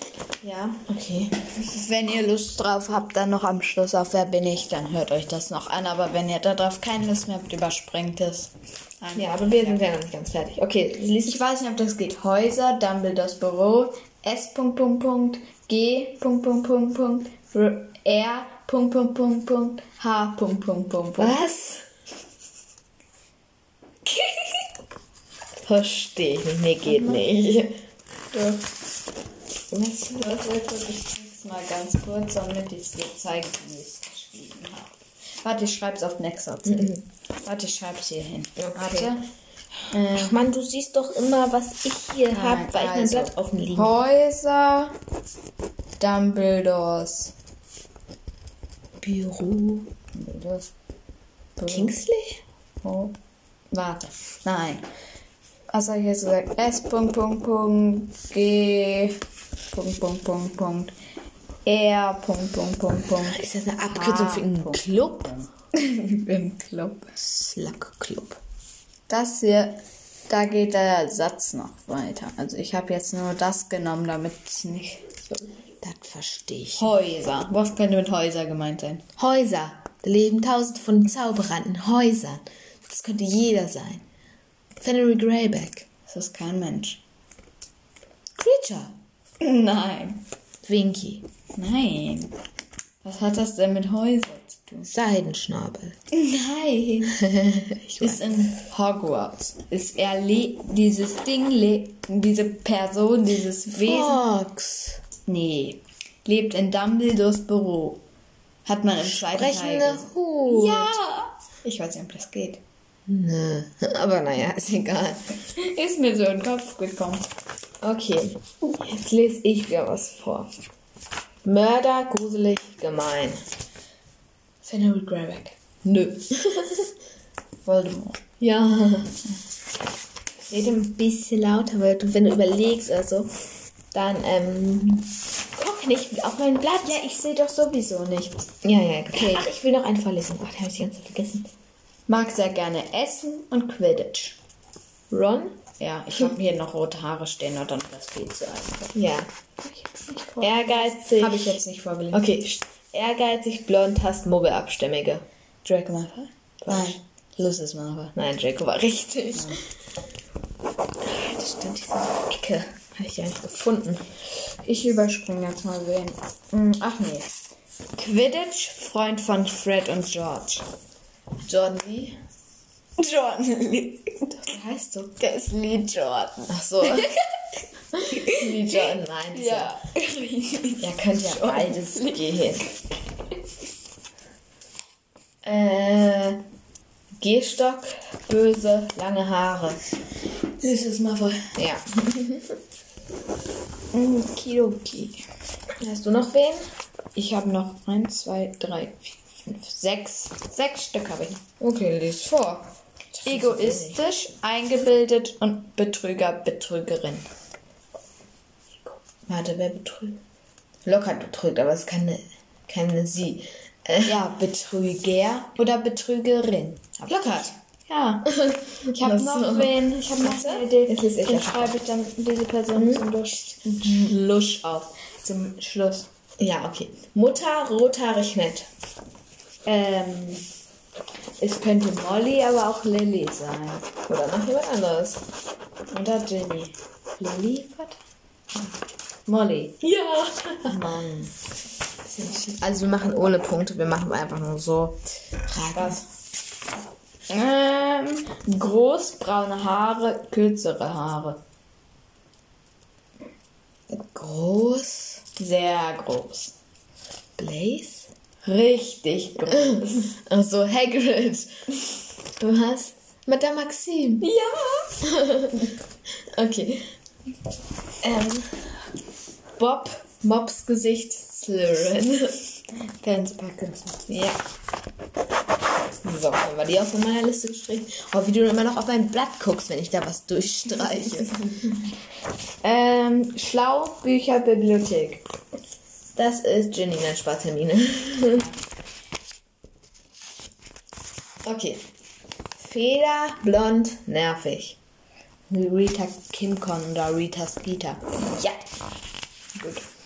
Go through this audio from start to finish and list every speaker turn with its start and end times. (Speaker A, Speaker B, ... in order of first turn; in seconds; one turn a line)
Speaker A: 0.4-1.4
Speaker B: 1.6-9.8
Speaker A: 9.2-11.4
Speaker B: 11.2-21.4
Speaker A: 21.2-21.9
Speaker A: 25.6-27.8
Speaker B: 26.9-27.2
Speaker B: 28.3-28.7
Speaker A: 29.7-30.5
Speaker B: 30.1-39.3
Speaker A: 36.7-37.0
Speaker A: 38.6-39.2
Speaker B: 39.9-40.4
Speaker A: 40.0-44.0
Speaker B: 42.3-45.0
Speaker B: 46.0-47.3
Speaker A: 49.0-49.9
Speaker B: 50.1-50.7
Speaker B: 51.6-52.0
Speaker A: 51.7-52.4
Speaker B: 52.8-53.1
Speaker B: 53.7-54.9
Speaker B: 55.7-59.2
Speaker B: 59.7-60.9
Speaker B: 61.7-64.8
Speaker A: 63.3-65.5
Speaker B: 65.7-67.2
Speaker A: 67.2-68.4
Speaker B: 69.1-75.4
Speaker A: 75.8-76.9
Speaker B: 76.8-79.0
Speaker A: 79.2-84.0
Speaker A: 84.8-85.9
Speaker B: 86.1-87.0
Speaker A: 88.4-89.0
Speaker B: 89.4-90.2
Speaker A: 90.6-91.3
Speaker B: 91.6-92.4
Speaker B: 93.0-94.9
Speaker A: 94.9-96.0
Speaker B: 96.1-97.2
Speaker A: 97.1-98.5
Speaker B: 98.0-104.2
Speaker A: 103.7-105.0
Speaker B: 105.3-108.0
Speaker B: 108.7-112.6
Speaker A: 109.0-111.0
Speaker A: 113.1-115.4
Speaker B: 115.6-117.3
Speaker A: 117.8-120.5
Speaker A: 121.4-123.5
Speaker B: 124.6-125.6
Speaker A: 125.8-126.9
Speaker B: 127.7-128.2
Speaker A: 128.4-129.2
Speaker A: 130.5-133.3
Speaker A: 133.9-137.0
Speaker B: 136.8-138.5
Speaker A: 138.6-141.5
Speaker B: 139.1-139.5
Speaker B: 142.1-144.4
Speaker A: 145.1-145.6
Speaker B: 145.8-149.0
Speaker A: 148.9-149.3
Speaker B: 149.6-152.3
Speaker A: 150.4-151.6
Speaker A: 152.1-155.2
Speaker B: 155.6-158.1
Speaker A: 156.6-157.0
Speaker A: 158.2-159.6
Speaker B: 159.3-159.6
Speaker A: 161.0-164.1
Speaker B: 164.6-167.3
Speaker B: 167.9-170.7
Speaker A: 171.4-172.2
Speaker B: 173.0-174.5
Speaker A: 174.4-175.2
Speaker B: 175.2-177.3
Speaker A: 176.5-177.1
Speaker A: 177.9-179.7
Speaker B: 178.1-182.3
Speaker A: 180.8-182.7
Speaker A: 185.4-186.4
Speaker A: 187.2-189.8
Speaker B: 190.6-191.6
Speaker A: 191.6-192.6
Speaker B: 193.9-195.2
Speaker A: 195.8-196.6
Speaker B: 197.2-201.5
Speaker A: 201.6-204.0
Speaker B: 203.2-207.3
Speaker A: 209.3-210.2
Speaker A: 210.8-214.2
Speaker B: 214.0-218.3
Speaker A: 217.1-217.5
Speaker A: 218.3-221.8
Speaker B: 218.9-226.1
Speaker A: 222.8-223.1
Speaker A: 226.4-228.7
Speaker B: 229.7-230.4
Speaker B: 231.4-233.9
Speaker A: 234.1-235.2
Speaker B: 235.9-238.0
Speaker B: 239.3-239.8
Speaker A: 239.8-240.8
Speaker B: 240.7-241.3
Speaker A: 242.1-246.1
Speaker B: 245.7-246.0
Speaker B: 247.3-251.4
Speaker A: 253.9-255.2
Speaker B: 255.4-256.5
Speaker A: 257.4-258.1
Speaker B: 258.4-260.1
Speaker A: 259.5-261.5
Speaker A: 262.4-264.3
Speaker B: 264.2-265.0
Speaker A: 265.0-266.9
Speaker A: 268.0-268.7
Speaker A: 269.6-272.4
Speaker B: 272.8-274.0
Speaker A: 274.1-274.4
Speaker A: 276.0-281.9
Speaker B: 282.6-285.2
Speaker A: 286.1-288.5
Speaker A: 291.4-291.9
Speaker A: 292.6-294.8
Speaker B: 295.5-298.6
Speaker B: 299.6-299.9